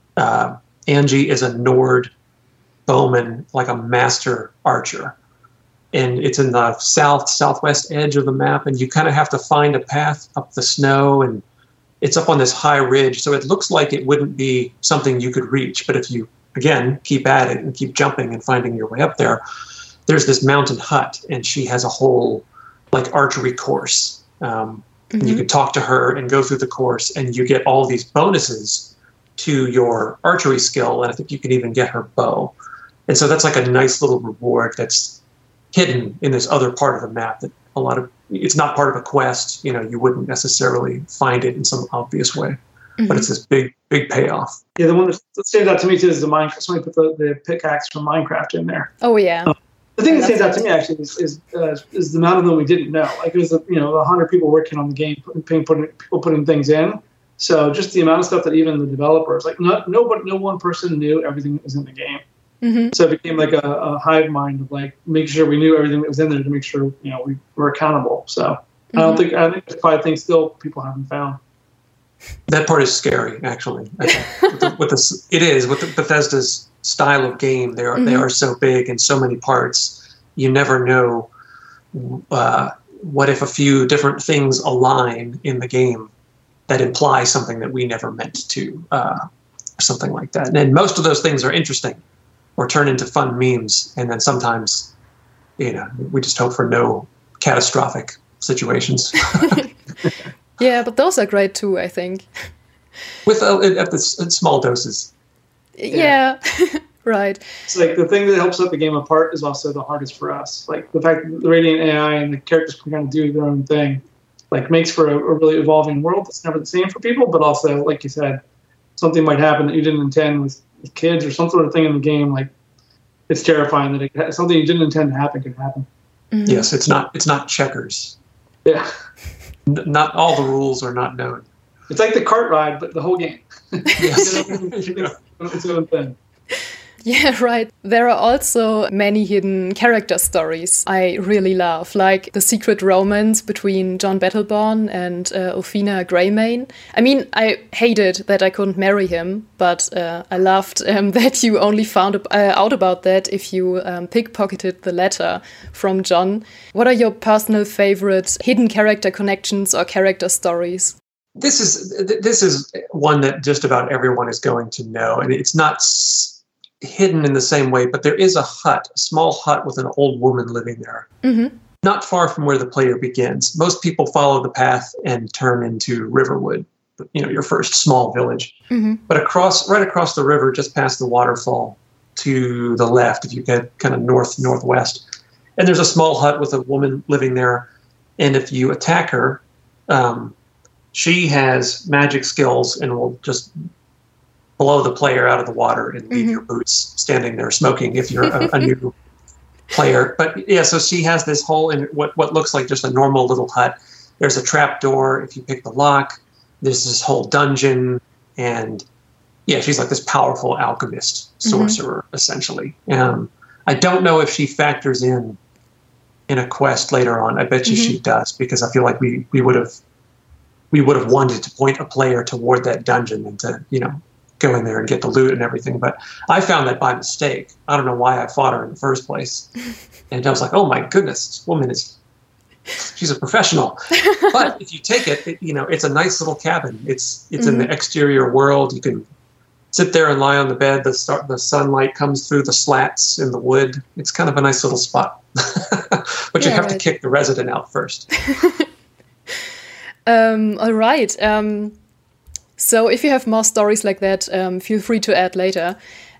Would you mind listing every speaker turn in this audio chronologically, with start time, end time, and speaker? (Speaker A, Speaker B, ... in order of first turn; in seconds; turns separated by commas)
Speaker A: 0.2-2.1, Speaker A: 2.9-5.2, Speaker A: 5.9-11.4, Speaker A: 12.0-19.4, Speaker A: 20.1-32.5, Speaker B: 25.1-25.4, Speaker A: 33.1-35.2, Speaker A: 35.7-44.6, Speaker B: 43.0-43.3, Speaker C: 44.8-48.9, Speaker B: 49.0-49.5, Speaker C: 50.0-62.2, Speaker B: 50.1-50.6, Speaker B: 62.6-63.0, Speaker C: 62.9-71.4, Speaker B: 69.0-69.2, Speaker A: 72.5-81.3, Speaker B: 78.0-78.3, Speaker A: 81.9-86.1, Speaker A: 86.7-89.2, Speaker A: 89.8-92.0, Speaker A: 92.6-94.9, Speaker A: 95.6-99.6, Speaker B: 99.3-99.6, Speaker B: 100.6-102.3, Speaker A: 103.3-105.1, Speaker B: 105.8-107.4, Speaker C: 105.9-106.2, Speaker C: 107.7-118.4, Speaker C: 119.0-122.5, Speaker C: 123.3-125.9, Speaker B: 126.3-126.7, Speaker A: 126.5-128.2, Speaker A: 129.7-131.5, Speaker C: 131.9-136.2, Speaker B: 133.9-134.2, Speaker A: 134.0-135.1, Speaker B: 137.1-160.9, Speaker A: 161.4-171.1, Speaker B: 171.2-171.6, Speaker A: 171.8-178.6, Speaker B: 178.7-179.0, Speaker A: 179.1-185.1, Speaker A: 185.6-190.3, Speaker A: 190.9-193.6, Speaker A: 194.6-198.9, Speaker B: 196.1-196.4, Speaker A: 199.7-208.9, Speaker A: 209.5-215.4, Speaker B: 211.4-211.8, Speaker A: 216.3-219.8, Speaker B: 217.7-218.0, Speaker A: 220.7-229.5, Speaker A: 230.1-232.0, Speaker A: 232.8-239.1, Speaker B: 237.4-237.7, Speaker A: 239.7-248.1, Speaker B: 246.4-246.8, Speaker B: 248.3-248.6, Speaker B: 250.1-251.8, Speaker B: 252.6-255.8